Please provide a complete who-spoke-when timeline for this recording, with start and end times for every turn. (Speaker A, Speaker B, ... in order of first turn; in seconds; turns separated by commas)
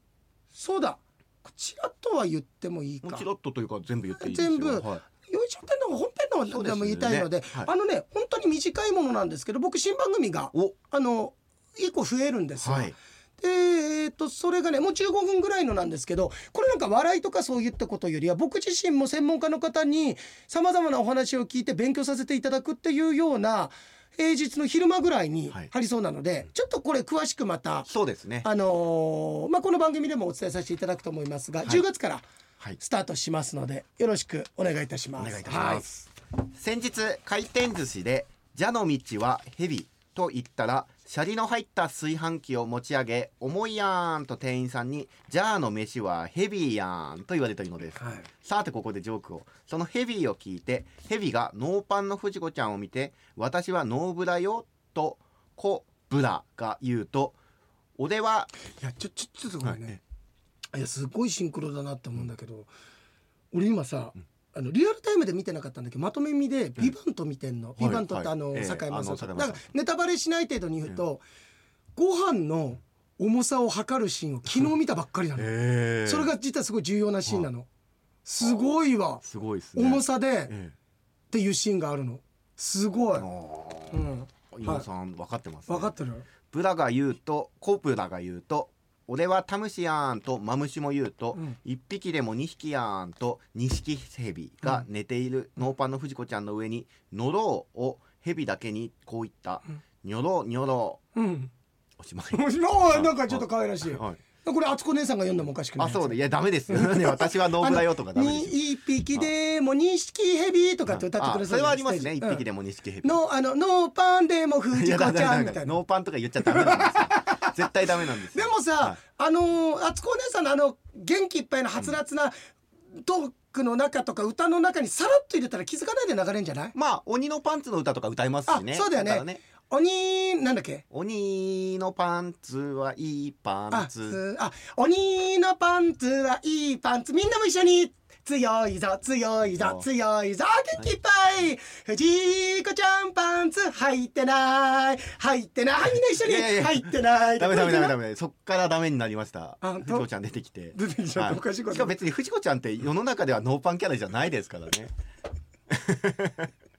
Speaker A: 0.5-3.2, Speaker B: 3.0-5.0, Speaker A: 4.2-27.9, Speaker B: 6.5-7.7, Speaker B: 12.6-12.9, Speaker B: 27.9-28.5, Speaker A: 28.4-32.2, Speaker A: 32.8-35.9, Speaker B: 35.2-36.0, Speaker B: 36.5-57.4, Speaker A: 48.0-48.3, Speaker B: 58.0-58.5, Speaker A: 58.8-60.0, Speaker B: 59.6-60.0, Speaker A: 60.7-62.7, Speaker A: 63.5-71.2, Speaker B: 67.8-69.6, Speaker A: 72.0-75.5, Speaker B: 75.3-76.3, Speaker A: 76.0-77.7, Speaker A: 78.2-79.2, Speaker B: 79.2-80.7, Speaker A: 79.7-80.5, Speaker A: 81.3-83.2, Speaker B: 83.2-85.9, Speaker A: 83.9-84.8, Speaker A: 85.7-86.3, Speaker B: 86.5-101.0, Speaker A: 101.1-101.5, Speaker B: 102.0-104.2, Speaker A: 102.3-106.2, Speaker B: 105.8-108.6, Speaker A: 106.7-112.4, Speaker B: 110.9-113.2, Speaker A: 113.0-115.8, Speaker B: 114.7-119.0, Speaker A: 116.4-117.7, Speaker A: 118.3-122.3, Speaker A: 123.0-126.7, Speaker B: 126.7-129.4, Speaker A: 128.5-130.8, Speaker B: 130.9-134.2, Speaker A: 133.7-147.9, Speaker B: 139.4-139.8, Speaker B: 146.2-154.9, Speaker A: 149.6-150.1, Speaker A: 150.7-151.9, Speaker B: 155.7-156.5